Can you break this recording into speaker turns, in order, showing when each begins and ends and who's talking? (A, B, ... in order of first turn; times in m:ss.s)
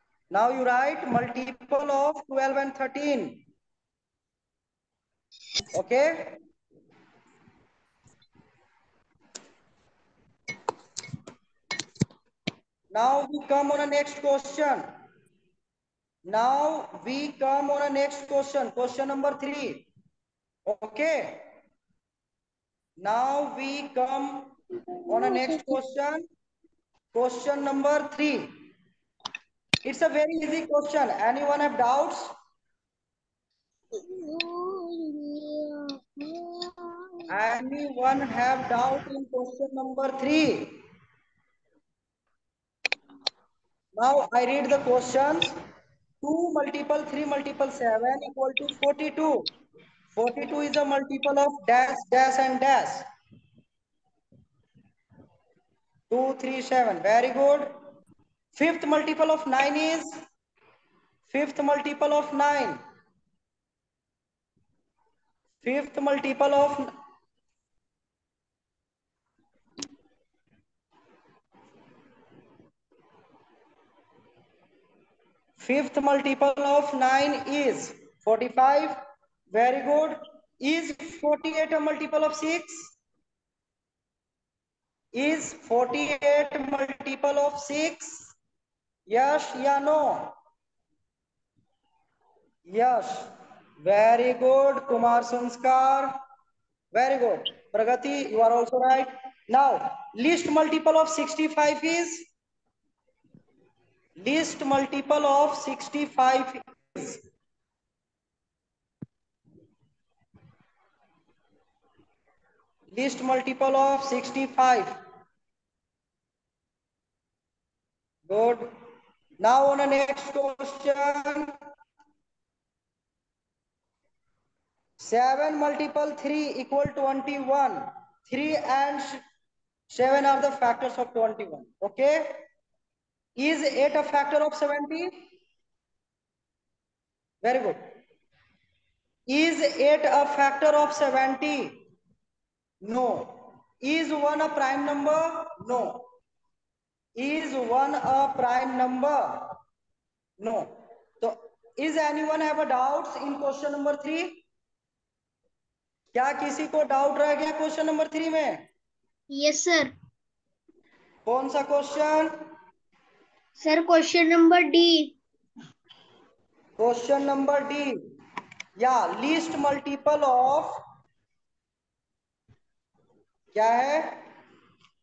0:00.3-0:03.4 A
0:05.7-0:06.4 A
0:12.9-0:14.8 A
0:16.3-0:19.8 A
0:20.7-0:21.4 A
0:23.0-0:24.5 A
0:25.0-0:25.7 B
0:25.1-0:26.2 A
0:27.1-0:28.5 A
0:29.8-0:32.3 A
0:34.0-0:37.1 B
0:37.3-0:40.8 A
0:44.0-0:45.5 A
0:46.2-0:49.4 A
0:50.1-0:53.0 A
0:56.1-0:57.7 A
0:58.5-1:00.1 A
1:01.3-1:02.8 A
1:05.6-1:06.9 A
1:15.6-1:18.9 A
1:19.5-1:22.9 A
1:25.1-1:28.3 A
1:29.1-1:30.3 A
1:32.7-1:33.3 A
1:33.8-1:36.1 A
1:36.9-1:42.3 A
1:44.2-1:47.2 A
1:52.9-1:54.9 A
1:58.3-1:58.7 A
1:59.4-2:01.5 A
2:05.0-2:09.2 A
2:09.9-2:12.4 A
2:13.4-2:15.1 A
2:17.4-2:17.8 A
2:19.3-2:21.7 A
2:22.8-2:26.0 A
2:27.2-2:29.5 A
2:30.4-2:30.7 A
2:31.2-2:34.4 A
2:36.1-2:38.6 A
2:39.3-2:39.9 B
2:41.3-2:42.3 A
2:43.6-2:45.2 B
2:46.8-2:47.9 A
2:48.8-2:50.7 A
2:53.5-2:54.2 A